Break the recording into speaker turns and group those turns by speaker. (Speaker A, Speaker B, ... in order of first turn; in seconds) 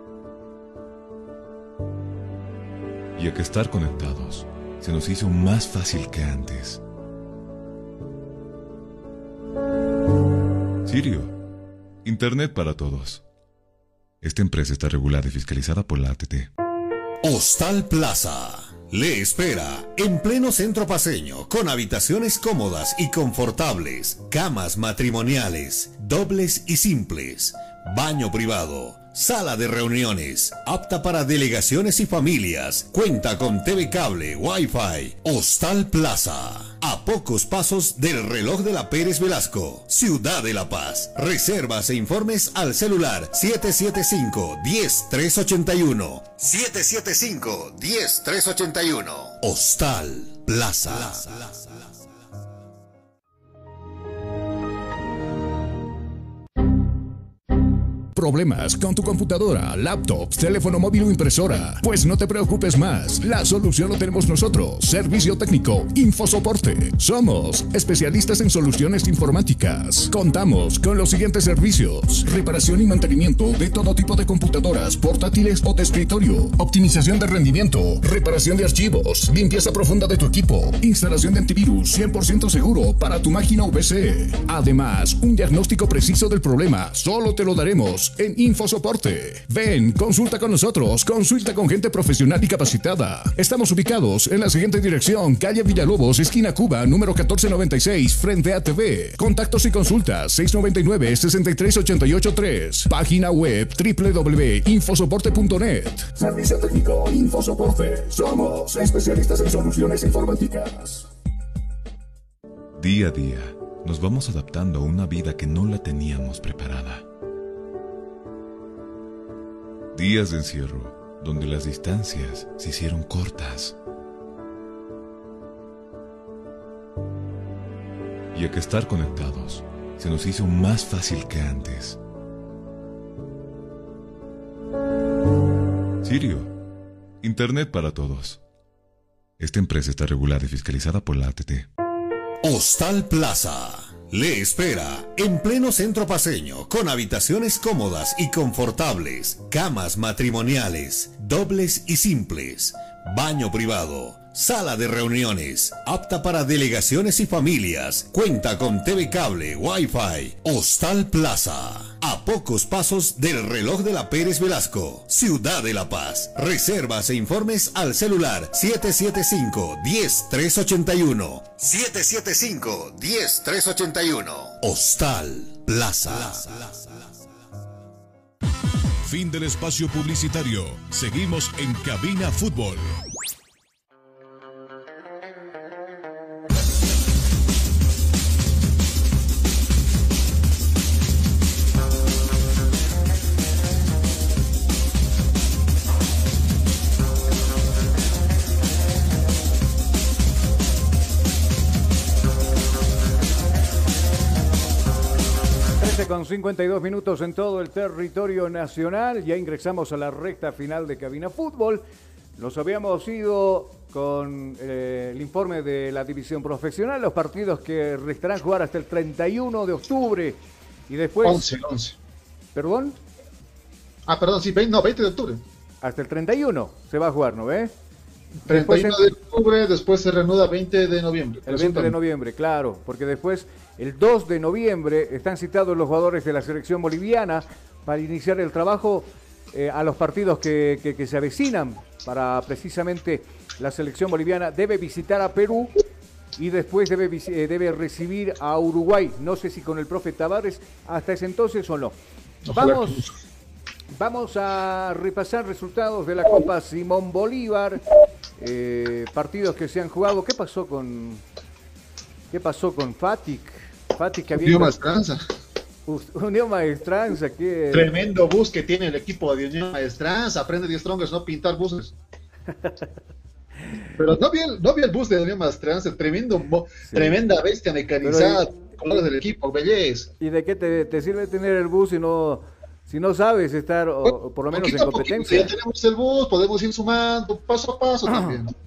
Speaker A: 3.2-6.8, 10.9-11.3, 12.0-13.2, 14.2-16.5, 112.8-117.0, 120.0-123.8, 128.3-132.0, 136.0-136.5, 137.2-138.4, 139.4-141.7
Speaker B: 17.2-51.4, 142.4-176.5
Speaker C: 58.1-111.1
Speaker D: 179.0-183.0
Speaker E: 205.8-211.8, 212.4-221.5, 222.6-223.0, 225.8-227.7, 228.5-229.0, 231.5-245.7, 246.4-252.0, 252.5-253.1, 253.9-257.8, 258.4-261.2, 262.3-264.8, 265.9-267.9, 272.5-272.9, 276.8-277.2, 278.0-278.4, 280.2-285.5, 288.1-288.4
Speaker F: 221.2-222.0, 224.1-225.4, 228.5-231.9, 252.5-253.1, 264.4-265.2, 267.7-272.0, 274.0-280.1, 284.1-288.5